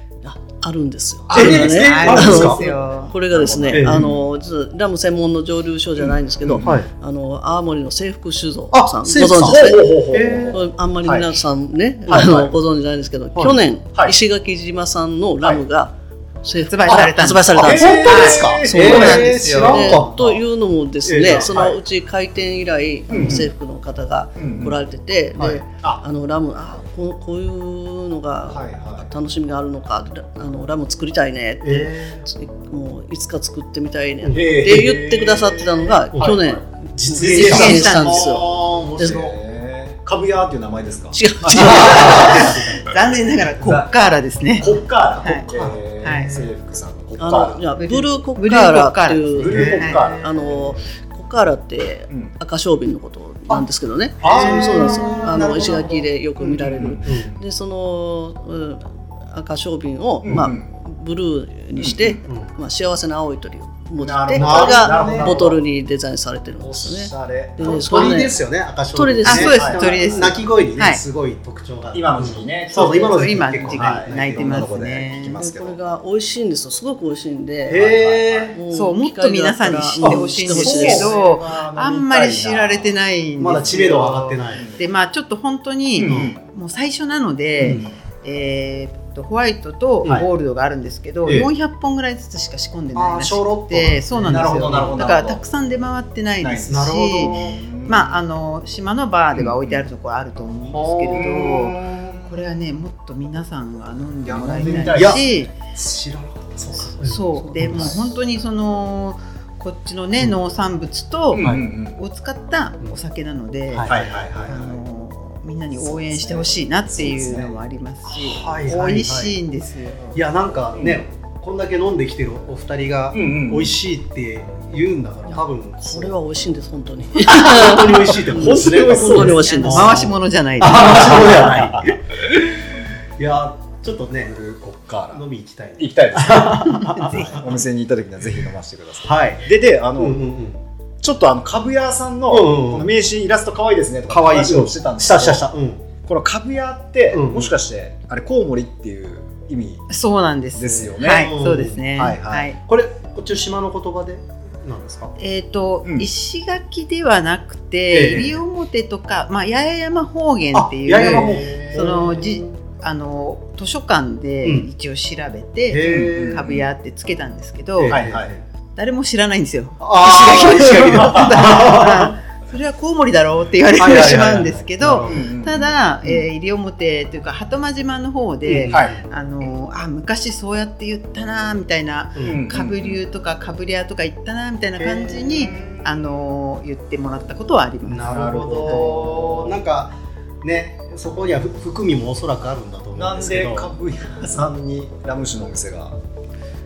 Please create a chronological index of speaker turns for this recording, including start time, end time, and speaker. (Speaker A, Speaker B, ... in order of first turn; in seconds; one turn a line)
Speaker A: 0.2-9.9
Speaker B: 1.3-4.2
Speaker C: 1.3-2.6
Speaker D: 1.4-3.1
Speaker C: 3.7-4.1
Speaker B: 6.0-6.8
Speaker C: 6.6-6.9
Speaker C: 8.7-10.6
Speaker B: 9.4-11.3
Speaker A: 10.5-17.9
Speaker B: 12.1-12.5
Speaker C: 13.3-13.6
Speaker D: 16.6-19.8
Speaker B: 17.6-20.2
Speaker C: 17.6-20.4
Speaker A: 18.7-39.2
Speaker C: 21.1-21.8
Speaker B: 23.1-23.5
Speaker B: 24.4-24.8
Speaker C: 25.4-25.6
Speaker B: 28.5-29.1
Speaker C: 31.6-32.3
Speaker B: 34.3-36.6
Speaker C: 36.1-36.4
Speaker C: 37.0-39.4
Speaker B: 37.2-43.9
Speaker D: 37.3-38.5
Speaker A: 41.1-42.5
Speaker C: 41.5-42.9
Speaker D: 41.8-45.5
Speaker B: 44.6-47.7
Speaker C: 45.5-46.5
Speaker D: 46.0-46.5
Speaker A: 47.2-68.3
Speaker D: 47.8-50.0
Speaker B: 49.4-50.8
Speaker C: 49.5-50.7
Speaker C: 54.2-56.1
Speaker B: 54.2-54.8
Speaker D: 54.2-55.0
Speaker B: 56.4-57.1
Speaker C: 57.0-57.4
Speaker B: 60.2-60.6
Speaker B: 61.8-62.2
Speaker C: 62.2-62.5
Speaker B: 64.0-65.6
Speaker C: 64.3-65.5
Speaker B: 66.6-68.3
Speaker C: 67.6-74.7
Speaker A: 68.9-69.6
Speaker D: 69.2-71.0
Speaker B: 69.4-70.8
Speaker B: 71.9-75.8
Speaker D: 72.7-75.4
Speaker A: 75.4-77.9
Speaker B: 77.7-78.6
Speaker C: 77.7-78.6
Speaker A: 78.5-81.1
Speaker D: 78.7-105.5
Speaker C: 80.0-81.1
Speaker B: 80.6-83.0
Speaker C: 83.4-84.7
Speaker B: 84.5-84.8
Speaker B: 86.0-86.5
Speaker C: 86.0-86.3
Speaker C: 87.6-87.9
Speaker B: 87.6-88.0
Speaker C: 93.0-95.0
Speaker B: 94.2-95.4
Speaker B: 96.4-98.2
Speaker C: 96.7-97.6
Speaker B: 99.4-99.8
Speaker C: 100.7-102.2
Speaker B: 101.2-101.8
Speaker B: 104.2-105.5
Speaker C: 104.7-108.0
Speaker D: 107.0-120.2
Speaker A: 107.3-107.9
Speaker B: 111.3-112.0
Speaker C: 111.4-111.7
Speaker C: 113.7-114.5
Speaker B: 113.9-114.8
Speaker C: 116.0-116.4
Speaker B: 116.2-117.5
Speaker C: 117.0-117.5
Speaker C: 118.1-119.4
Speaker C: 120.2-126.2
Speaker B: 120.8-121.0
Speaker B: 123.1-123.7
Speaker A: 125.3-130.0
Speaker C: 127.2-132.0
Speaker B: 128.2-129.4
Speaker D: 129.2-131.6
Speaker B: 130.7-131.9
Speaker C: 133.2-134.4
Speaker B: 134.2-135.2
Speaker C: 135.1-137.4
Speaker B: 135.8-140.2
Speaker D: 136.8-137.4
Speaker C: 139.0-140.6
Speaker B: 141.0-145.4
Speaker C: 142.3-142.9
Speaker C: 144.1-145.8
Speaker B: 146.1-149.8
Speaker C: 147.1-147.6
Speaker D: 149.9-152.6
Speaker B: 150.6-151.3
Speaker C: 151.1-151.8
Speaker B: 152.0-152.5
Speaker C: 152.6-155.1
Speaker D: 155.2-168.0
Speaker C: 157.9-158.4
Speaker C: 160.5-162.5
Speaker B: 161.0-161.8
Speaker C: 165.7-166.4
Speaker B: 165.8-166.7
Speaker C: 167.8-168.4
Speaker B: 167.9-168.3
Speaker D: 168.8-188.8
Speaker C: 169.8-172.1
Speaker C: 173.8-175.3
Speaker B: 175.0-176.3
Speaker C: 178.4-179.1
Speaker C: 182.2-182.4
Speaker B: 182.3-183.0
Speaker C: 184.8-185.5
Speaker B: 185.4-186.0
Speaker C: 187.8-193.7
Speaker B: 188.0-189.6
Speaker B: 193.0-195.9